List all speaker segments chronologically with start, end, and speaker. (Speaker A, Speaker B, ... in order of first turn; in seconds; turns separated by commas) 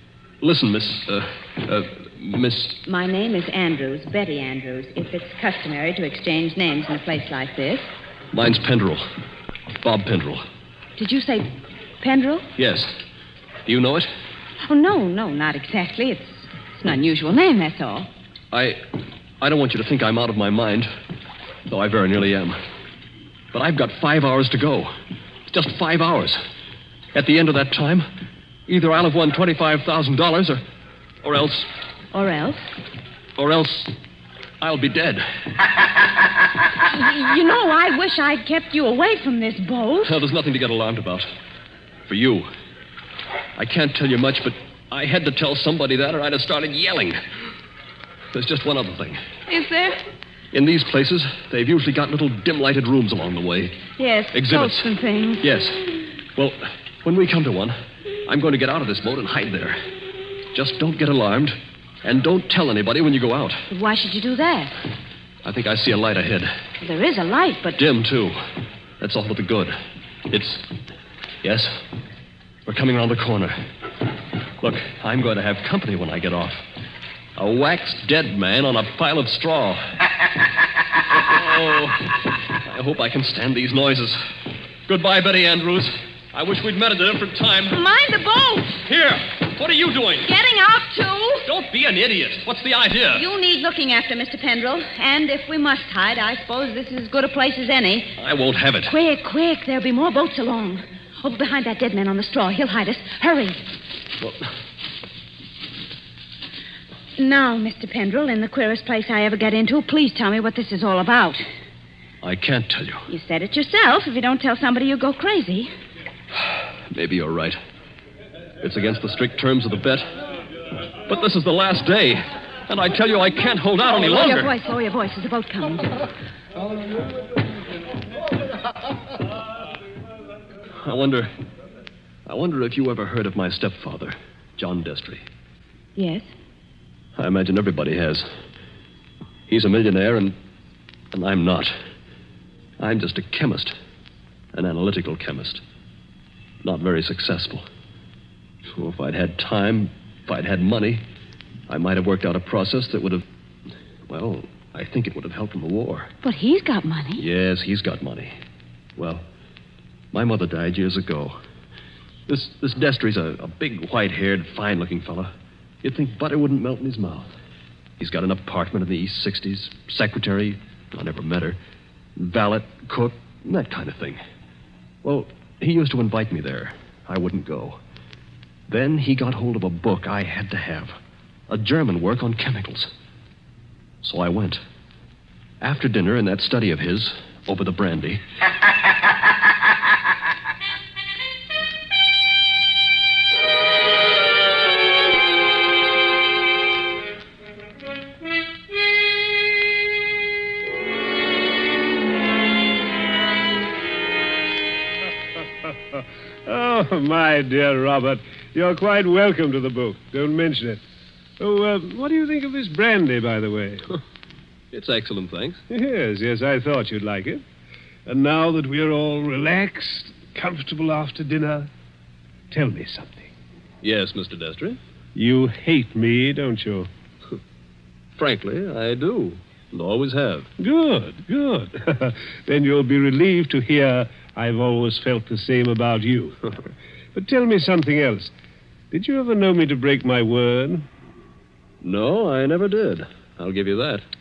Speaker A: 0.4-2.8, Speaker B: 2.8-7.9, Speaker A: 8.3-9.1, Speaker A: 9.8-10.4, Speaker B: 11.0-11.5, Speaker B: 12.0-12.4, Speaker A: 12.6-12.9, Speaker A: 13.7-14.1, Speaker B: 14.7-18.1, Speaker A: 18.5-18.8, Speaker A: 19.4-20.9, Speaker A: 21.7-22.6, Speaker A: 23.5-24.9, Speaker A: 25.5-26.4, Speaker A: 27.1-28.1, Speaker A: 28.7-30.6, Speaker A: 31.2-31.7, Speaker B: 32.1-32.6, Speaker A: 33.4-33.9, Speaker A: 34.6-35.2, Speaker B: 36.8-40.1, Speaker A: 40.0-41.2, Speaker A: 42.1-42.5, Speaker A: 43.5-47.2, Speaker A: 48.3-49.2, Speaker B: 49.5-50.0, Speaker A: 50.5-53.8, Speaker B: 54.0-55.5, Speaker A: 54.3-54.9, Speaker A: 55.4-55.8, Speaker A: 56.4-57.7, Speaker A: 58.2-59.8, Speaker A: 60.5-63.6, Speaker B: 63.7-64.7, Speaker A: 65.4-66.5, Speaker B: 66.8-67.8, Speaker A: 67.8-68.4, Speaker A: 69.0-69.7, Speaker A: 70.3-70.7, Speaker A: 71.4-71.8, Speaker A: 72.7-73.5, Speaker A: 74.6-76.6, Speaker A: 77.3-79.8, Speaker A: 81.1-82.1, Speaker A: 82.6-84.2, Speaker A: 84.8-87.8, Speaker B: 87.7-88.8, Speaker A: 88.8-90.3, Speaker B: 90.2-91.5, Speaker A: 91.5-93.3, Speaker B: 93.1-98.1, Speaker A: 98.2-99.0, Speaker B: 98.9-103.7, Speaker B: 107.2-111.4, Speaker A: 112.2-113.0, Speaker B: 113.1-115.7, Speaker A: 116.9-117.6, Speaker A: 118.6-120.1, Speaker A: 121.1-124.5, Speaker B: 123.8-126.1, Speaker A: 130.8-131.3, Speaker A: 132.2-135.2, Speaker B: 135.9-136.3, Speaker A: 137.2-138.3, Speaker A: 139.5-140.3, Speaker A: 141.1-141.7, Speaker A: 142.8-143.7, Speaker A: 144.5-145.6, Speaker A: 146.6-147.7, Speaker A: 148.7-151.0, Speaker A: 151.7-153.2, Speaker A: 154.1-156.1, Speaker B: 156.2-157.2, Speaker A: 157.2-158.3, Speaker A: 159.0-159.2, Speaker A: 160.1-161.4, Speaker A: 162.3-165.3, Speaker A: 165.8-167.3, Speaker A: 168.0-171.6, Speaker A: 172.2-174.2, Speaker A: 175.0-177.8, Speaker A: 178.7-180.9, Speaker A: 181.5-182.9, Speaker A: 184.0-184.6, Speaker A: 185.6-188.2, Speaker C: 205.6-210.8, Speaker C: 211.4-213.9, Speaker A: 214.7-215.6, Speaker C: 215.7-217.4, Speaker C: 218.1-221.7, Speaker C: 222.5-223.3, Speaker A: 223.8-224.8, Speaker C: 225.1-226.9, Speaker A: 228.2-230.5, Speaker C: 230.6-236.6, Speaker C: 237.1-238.3, Speaker C: 238.9-240.8, Speaker A: 241.8-244.0